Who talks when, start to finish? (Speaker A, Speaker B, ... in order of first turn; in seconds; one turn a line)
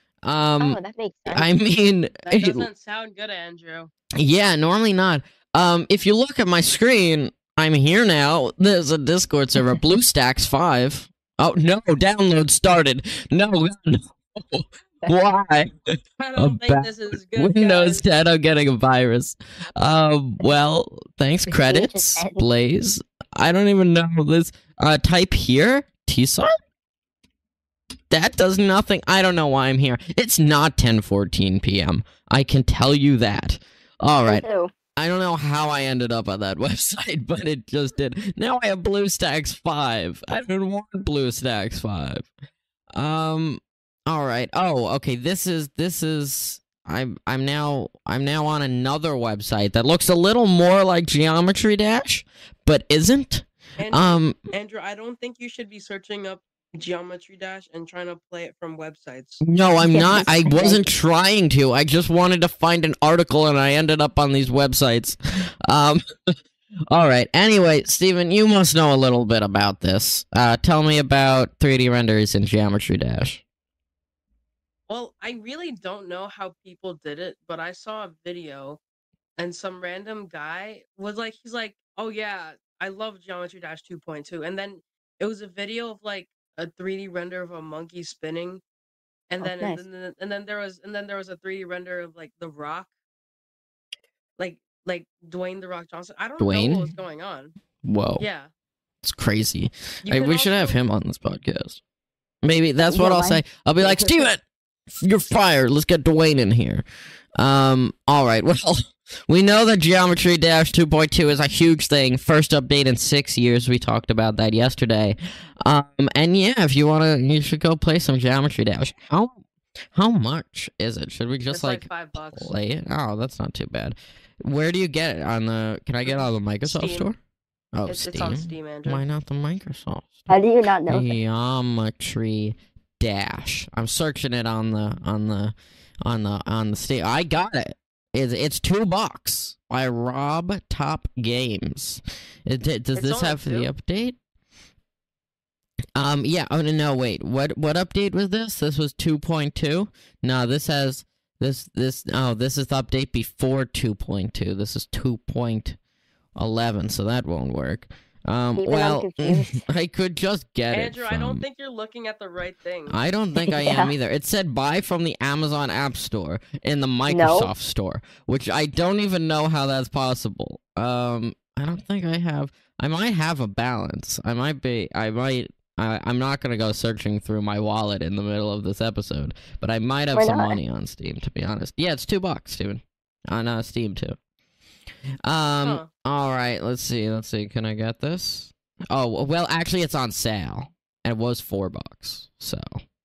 Speaker A: 0.2-2.7
Speaker B: 0.6-1.5
Speaker C: 2.2-3.9
Speaker A: 4.2-26.5
Speaker C: 16.2-18.0
Speaker B: 21.5-22.4
Speaker A: 28.1-42.3
Speaker B: 34.2-34.7
Speaker A: 42.9-54.4
Speaker C: 53.8-59.4
Speaker A: 59.4-66.3
Speaker B: 59.8-60.8
Speaker A: 66.9-73.4
Speaker C: 74.9-78.8
Speaker C: 79.4-88.6
Speaker C: 89.3-92.9
Speaker B: 89.4-89.8
Speaker C: 94.4-97.5
Speaker A: 96.4-96.9
Speaker A: 97.8-98.2
Speaker C: 98.2-98.5
Speaker A: 99.0-101.8
Speaker C: 100.0-100.8
Speaker A: 102.4-106.8
Speaker B: 102.8-104.2
Speaker A: 107.4-119.4
Speaker A: 119.9-127.2
Speaker C: 121.5-122.5
Speaker C: 126.0-127.1
Speaker A: 127.7-130.3
Speaker C: 127.9-129.0
Speaker B: 130.3-131.1
Speaker A: 130.9-144.2
Speaker C: 142.9-143.7
Speaker A: 145.9-155.8
Speaker A: 156.3-161.4
Speaker B: 158.6-159.6
Speaker C: 160.7-163.0
Speaker A: 162.9-184.2
Speaker B: 163.4-163.9
Speaker B: 167.1-167.5
Speaker B: 180.1-180.6
Speaker A: 185.2-192.8
Speaker C: 185.6-185.9